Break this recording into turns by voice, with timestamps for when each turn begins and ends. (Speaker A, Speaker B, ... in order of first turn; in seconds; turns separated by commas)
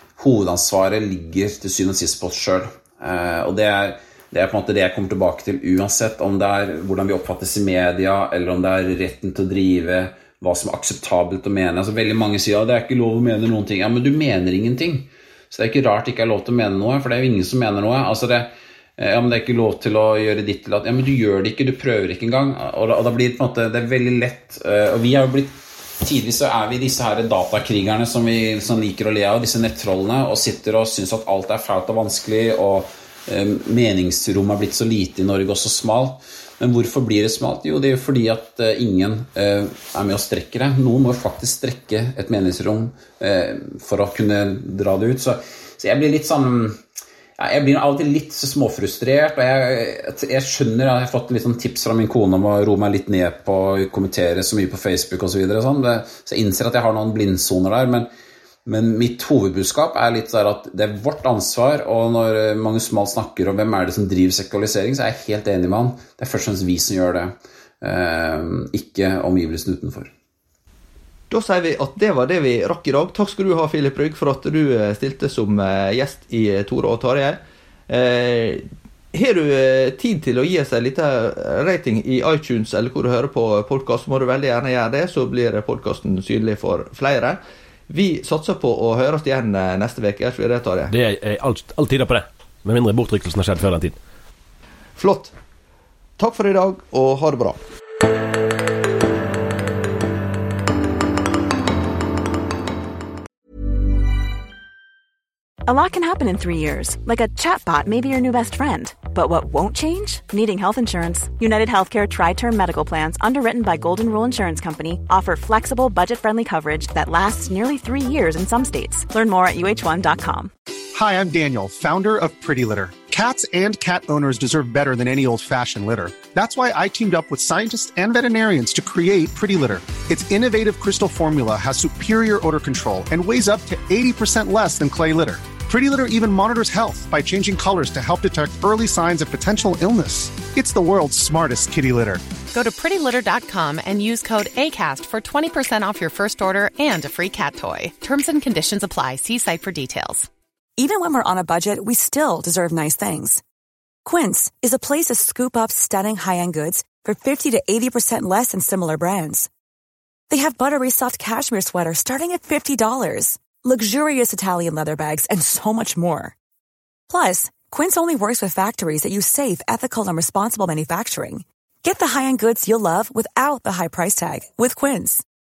Speaker A: 0.2-46.8, Speaker A: 47.4-58.1, Speaker A: 58.6-70.1, Speaker B: 71.3-90.9, Speaker C: 90.9-94.0, Speaker B: 95.0-95.3, Speaker B: 96.2-97.6, Speaker D: 105.7-120.5, Speaker E: 120.9-142.2, Speaker F: 142.5-150.3, Speaker G: 150.8-153.4, Speaker G: 154.0-159.5, Speaker G: 160.3-166.3, Speaker G: 167.1-175.2